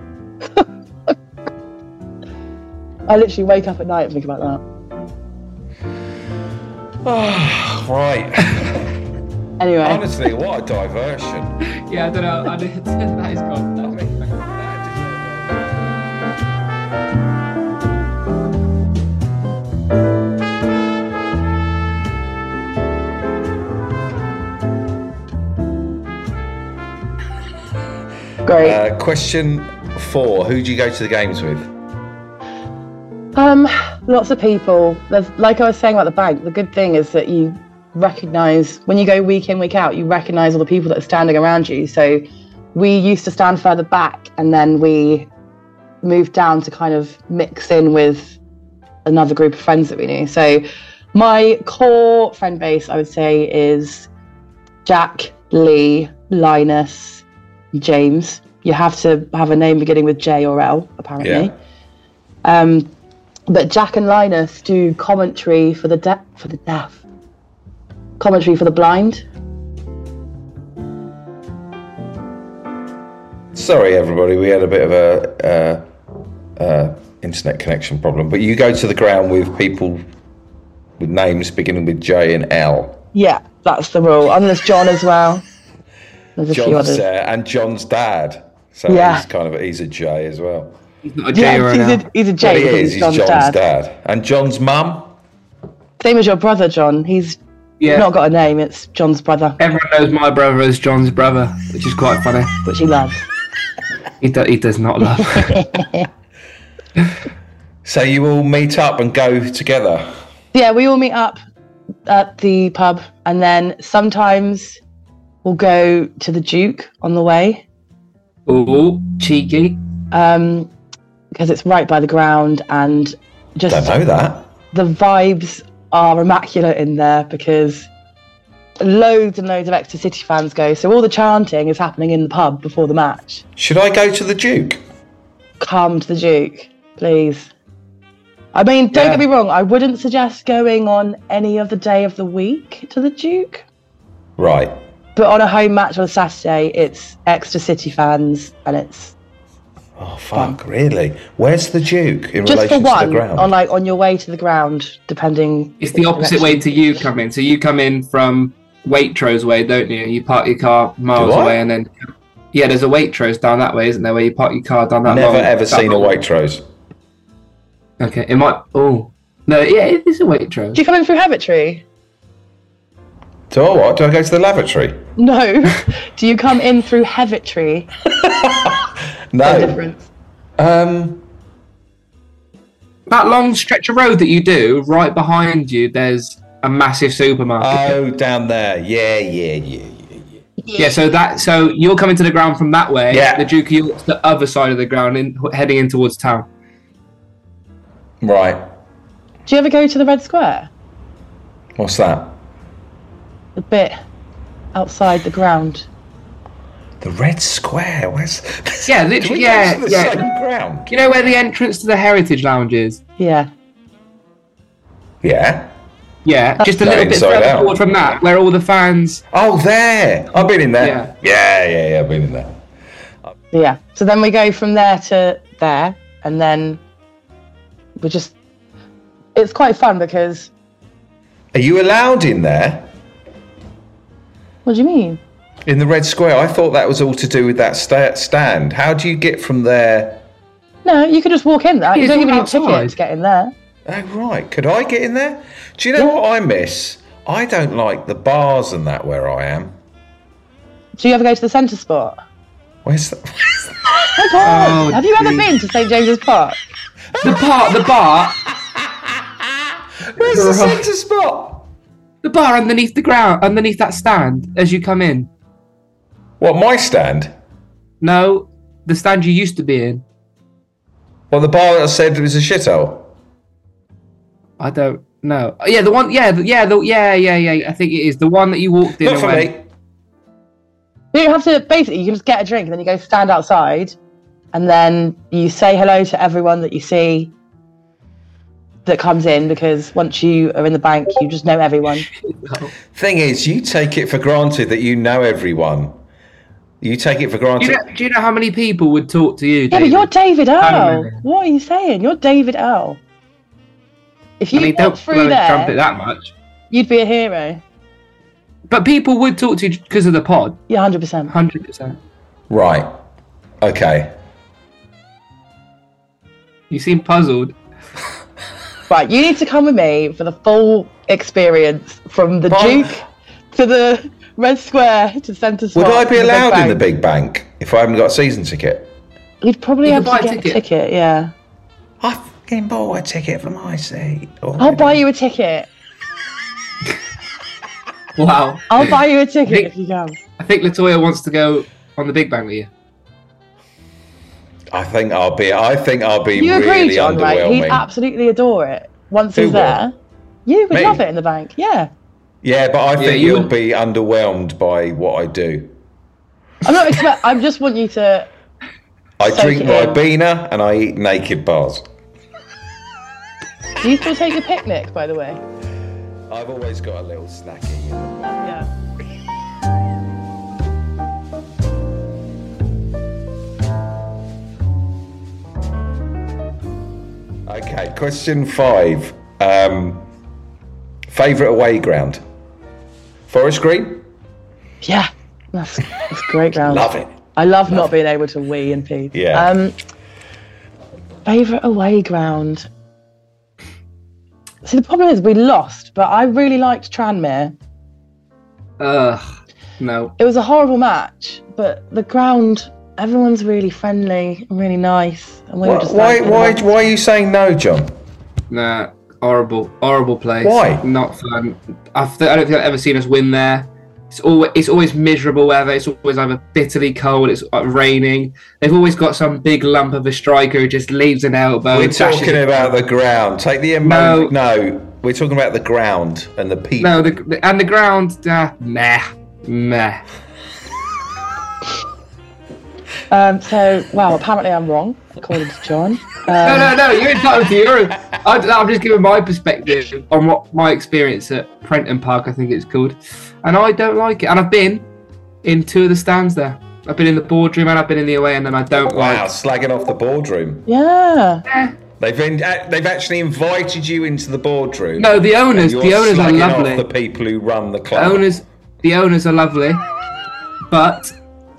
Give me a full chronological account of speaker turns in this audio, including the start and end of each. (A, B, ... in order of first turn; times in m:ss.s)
0:00.5-0:01.1 A
0:03.1-0:04.6 A
0:07.0-0:08.9 B
0:09.6-0:10.0 A
0:09.8-0:11.6 B
0:11.8-0:14.4 C
0:13.8-0:15.7 B
0:28.4-0:28.8 A
0:28.6-0:31.7 B
0:33.3-0:45.3 A
0:46.0-0:48.4 A
0:49.0-0:54.1 A
0:54.8-1:01.5 A
1:01.2-1:01.5 B
1:02.4-1:02.9 A
1:03.5-1:07.0 A
1:08.2-1:09.2 A
1:13.5-1:15.8 B
1:16.6-1:20.0 B
1:21.0-1:23.0 B
1:23.1-1:25.4 A
1:26.4-1:27.0 A
1:26.5-1:30.8 B
1:28.9-1:29.2 A
1:31.0-1:32.0 C
1:31.3-1:33.6 A
1:32.4-1:35.1 B
1:36.0-1:39.6 A
1:37.8-1:38.1 C
1:39.6-1:42.5 C
1:42.6-1:43.2 A
1:44.2-1:45.6 C
1:45.2-1:46.1 A
1:47.8-1:50.1 B
1:50.5-1:51.4 A
1:52.1-1:54.8 A
1:55.4-1:57.6 A
1:58.5-1:59.8 C
2:00.1-2:00.7 A
2:01.3-2:04.0 A
2:03.7-2:04.5 B
2:04.7-2:07.9 A
2:08.8-2:13.4 A
2:13.6-2:14.8 B
2:15.6-2:17.5 A
2:18.5-2:23.6 A
2:18.9-2:19.2 C
2:24.4-2:24.8 B
2:25.2-2:29.1 A
2:30.0-2:33.5 B
2:32.4-2:37.0 A
2:35.8-2:46.1 C
2:41.1-2:41.6 B
2:45.0-2:46.6 B
2:48.0-2:50.8 C
2:50.7-2:51.8 A
2:53.5-2:55.0 B
2:55.2-2:57.9 A
2:58.2-2:59.8 B
2:59.4-3:00.1 A
3:00.6-3:01.2 B
3:03.1-3:08.0 C
3:07.6-3:10.4 B
3:10.6-3:11.0 A
3:10.8-3:16.5 C
3:13.1-3:13.5 B
3:18.2-3:18.6 B
3:19.5-3:20.7 A
3:21.8-3:22.4 B
3:23.6-3:24.0 A
3:24.7-3:25.9 A
3:27.0-3:30.9 B
3:28.9-3:30.2 C
3:30.9-3:33.0 C
3:33.2-3:33.5 A
3:35.2-3:35.7 B
3:36.2-3:39.2 C
3:36.8-3:37.8 B
3:39.3-3:42.6 B
3:40.8-3:41.1 C
3:43.5-3:46.8 A
3:48.0-3:48.3 A
3:49.3-3:50.5 A
3:51.5-3:52.9 B
3:54.6-3:55.2 A
3:55.6-4:00.2 B
4:00.8-4:03.5 A
4:01.9-4:02.9 C
4:03.8-4:09.7 B
4:11.0-4:12.2 A
4:12.8-4:14.3 B
4:14.1-4:16.6 A
4:14.4-4:15.5 C
4:17.1-4:17.5 B
4:17.2-4:18.4 C
4:20.0-4:21.6 B
4:20.2-4:20.8 C
4:22.2-4:25.3 C
4:26.4-4:27.3 B
4:28.0-4:30.0 C
4:31.3-4:33.1 B
4:34.6-4:39.5 C
4:39.0-4:39.6 B
4:41.1-4:43.9 A
4:44.5-4:47.3 A
4:48.8-4:52.1 A
4:52.2-4:52.7 C
4:52.9-4:55.9 B
4:56.8-4:57.8 B
4:57.6-5:01.2 C
4:59.7-5:03.0 A
5:04.4-5:05.7 A
5:04.5-5:06.3 C
5:06.7-5:07.6 A
5:08.7-5:10.6 C
5:10.7-5:11.3 A
5:11.3-5:12.0 C
5:12.5-5:12.9 B
5:13.6-5:14.1 B
5:16.7-5:17.5 C
5:18.9-5:23.0 A
5:22.5-5:23.0 B
5:23.5-5:26.8 A
5:25.7-5:28.9 B
5:29.4-5:31.3 A
5:29.8-5:30.6 C
5:32.0-5:35.0 B
5:34.6-5:35.7 A
5:38.2-5:39.7 C
5:38.7-5:40.2 A
5:40.4-5:42.7 C
5:44.7-5:47.8 B
5:46.3-5:49.9 A
5:49.3-5:49.8 B
5:50.4-5:51.9 A
5:50.7-5:51.0 B
5:52.4-5:55.7 B
5:53.0-5:53.5 C
5:56.6-5:58.3 A
5:59.2-6:01.9 B
5:59.2-6:00.0 A
6:03.8-6:05.4 A
6:06.3-6:08.4 B
6:08.2-6:08.7 A
6:17.5-6:20.0 B
6:21.1-6:22.2 B
6:23.3-6:24.0 B
6:24.8-6:29.8 A
6:26.6-6:27.2 B
6:29.1-6:29.5 B
6:31.2-6:32.7 A
6:34.6-6:37.5 A
6:38.8-6:39.2 C
6:39.8-6:40.1 C
6:40.2-6:46.7 A
6:45.6-6:47.9 B
6:48.5-7:02.7 C
6:50.4-6:50.8 B
7:01.7-7:07.0 B
7:03.8-7:04.3 C
7:06.8-7:10.0 C
7:13.1-7:16.8 A
7:16.4-7:24.8 C
7:25.4-7:29.2 C
7:28.8-7:30.6 B
7:30.7-7:31.4 A
7:31.5-7:31.7 C
7:32.0-7:38.3 B
7:35.0-7:36.8 C
7:37.9-7:39.8 C
7:40.7-7:41.1 C